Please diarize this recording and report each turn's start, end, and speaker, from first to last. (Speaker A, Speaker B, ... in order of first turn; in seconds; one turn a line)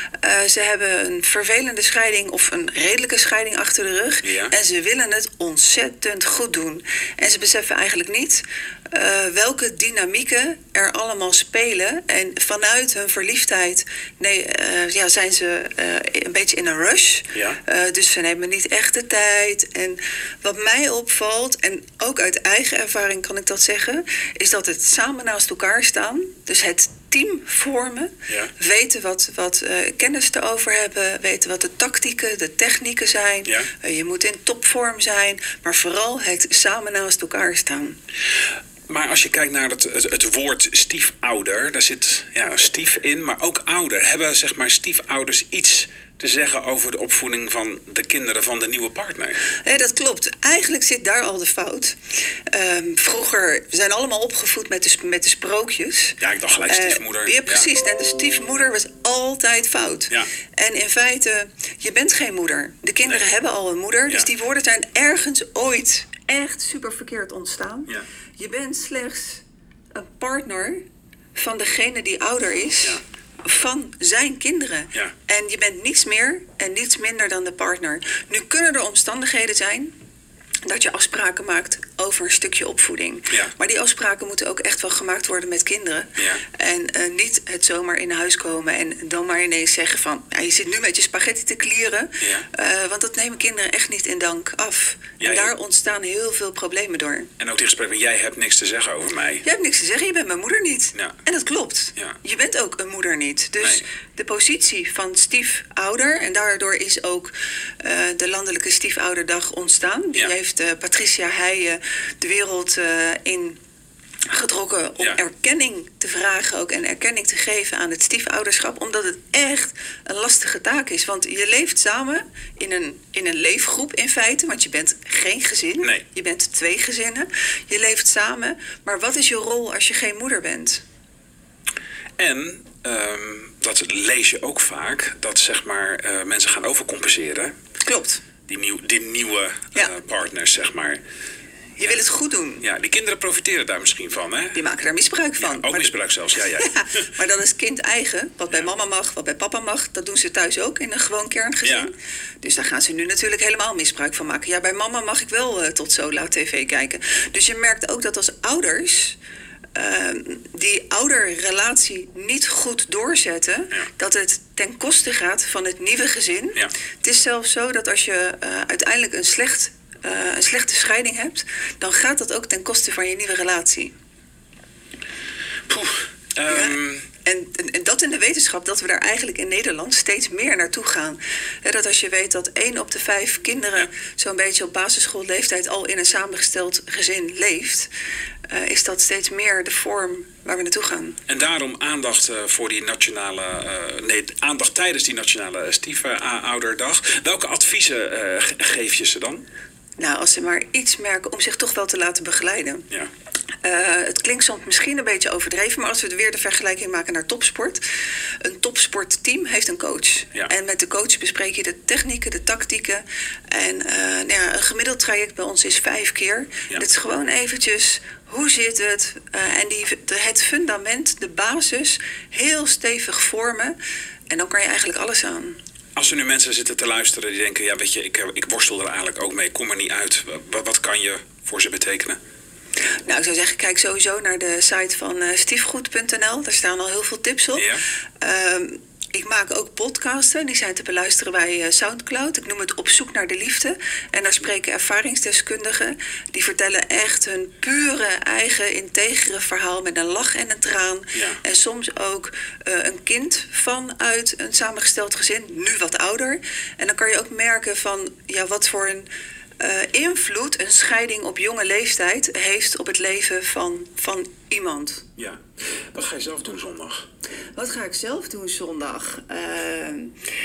Speaker A: 0.2-38.0
Speaker B: 4.2-4.5
Speaker B: 17.3-17.6
Speaker B: 28.3-28.5
Speaker B: 38.9-49.4
Speaker A: 49.6-52.0
Speaker A: 52.5-70.8
Speaker B: 56.2-57.7
Speaker A: 71.3-79.9
Speaker A: 80.7-97.3
Speaker B: 86.2-86.4
Speaker B: 92.2-92.5
Speaker B: 95.2-95.5
Speaker B: 97.4-99.5
Speaker A: 99.4-113.6
Speaker A: 114.3-130.8
Speaker B: 132.2-137.5
Speaker A: 137.8-138.2
Speaker B: 138.5-141.0
Speaker A: 141.8-142.6
Speaker B: 142.6-144.6
Speaker A: 144.6-145.9
Speaker B: 145.4-147.1
Speaker A: 146.6-159.2
Speaker B: 151.6-151.9
Speaker A: 159.8-173.9
Speaker B: 175.7-177.1
Speaker A: 176.5-187.9
Speaker A: 188.5-191.2
Speaker B: 191.3-199.4
Speaker A: 200.0-202.9
Speaker A: 203.6-207.8
Speaker A: 208.4-223.8
Speaker A: 224.3-225.6
Speaker B: 226.0-232.2
Speaker A: 233.1-237.7
Speaker B: 237.6-237.8
Speaker A: 238.2-259.1
Speaker B: 251.1-251.4
Speaker A: 259.6-265.0
Speaker B: 265.9-267.1
Speaker A: 267.6-270.1